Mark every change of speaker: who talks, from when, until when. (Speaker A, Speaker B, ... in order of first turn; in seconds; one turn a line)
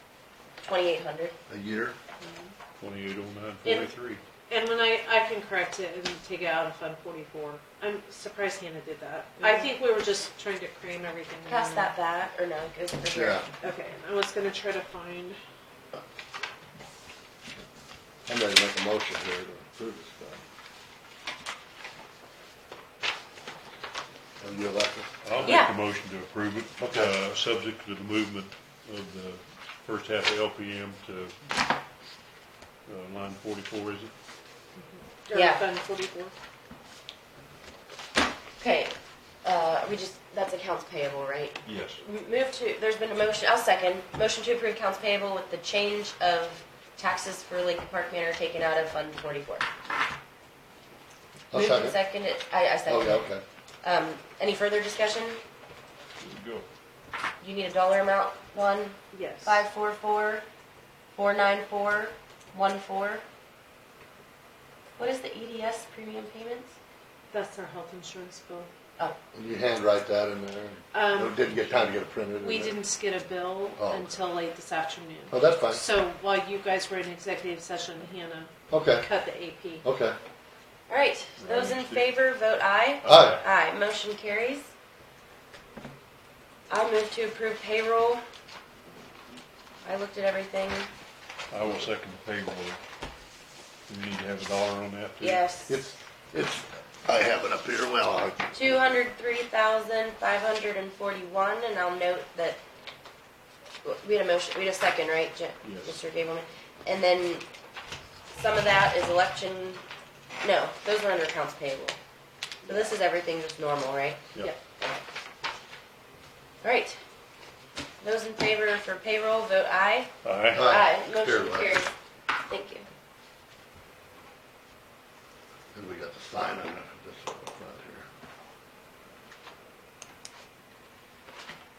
Speaker A: 0.6-1.4
Speaker B: 1.5-2.0
Speaker C: 2.2-2.5
Speaker D: 2.8-4.2
Speaker C: 3.6-3.9
Speaker C: 4.5-11.9
Speaker A: 9.4-9.7
Speaker A: 11.5-13.4
Speaker B: 13.1-13.5
Speaker C: 13.6-15.4
Speaker B: 18.3-20.4
Speaker B: 24.4-25.6
Speaker D: 25.2-31.4
Speaker A: 25.4-25.7
Speaker B: 26.8-27.1
Speaker D: 32.9-34.1
Speaker C: 34.8-36.4
Speaker A: 35.3-35.7
Speaker A: 38.6-49.7
Speaker D: 41.6-42.0
Speaker B: 51.5-52.0
Speaker A: 51.5-53.3
Speaker B: 52.9-53.4
Speaker A: 53.8-55.4
Speaker D: 56.2-56.7
Speaker A: 57.4-60.5
Speaker C: 59.1-59.6
Speaker A: 61.1-63.2
Speaker A: 65.0-66.7
Speaker C: 67.3-68.7
Speaker B: 69.3-72.8
Speaker C: 70.9-79.8
Speaker B: 73.8-74.2
Speaker B: 75.3-75.8
Speaker B: 78.7-79.1
Speaker B: 79.8-80.2
Speaker A: 80.9-84.7
Speaker D: 81.4-82.1
Speaker B: 83.0-83.4
Speaker D: 83.0-83.4
Speaker A: 86.7-88.2
Speaker A: 89.8-90.9
Speaker D: 91.5-92.8
Speaker D: 93.9-95.4
Speaker A: 95.2-95.8
Speaker B: 95.7-98.8
Speaker A: 98.5-102.6
Speaker A: 103.8-107.5
Speaker D: 105.6-106.0
Speaker A: 108.3-109.8
Speaker A: 110.4-112.0
Speaker A: 112.7-114.3
Speaker A: 116.6-117.0
Speaker A: 118.0-120.1
Speaker D: 120.2-120.6
Speaker B: 120.5-121.9
Speaker A: 120.7-122.9
Speaker B: 125.7-128.1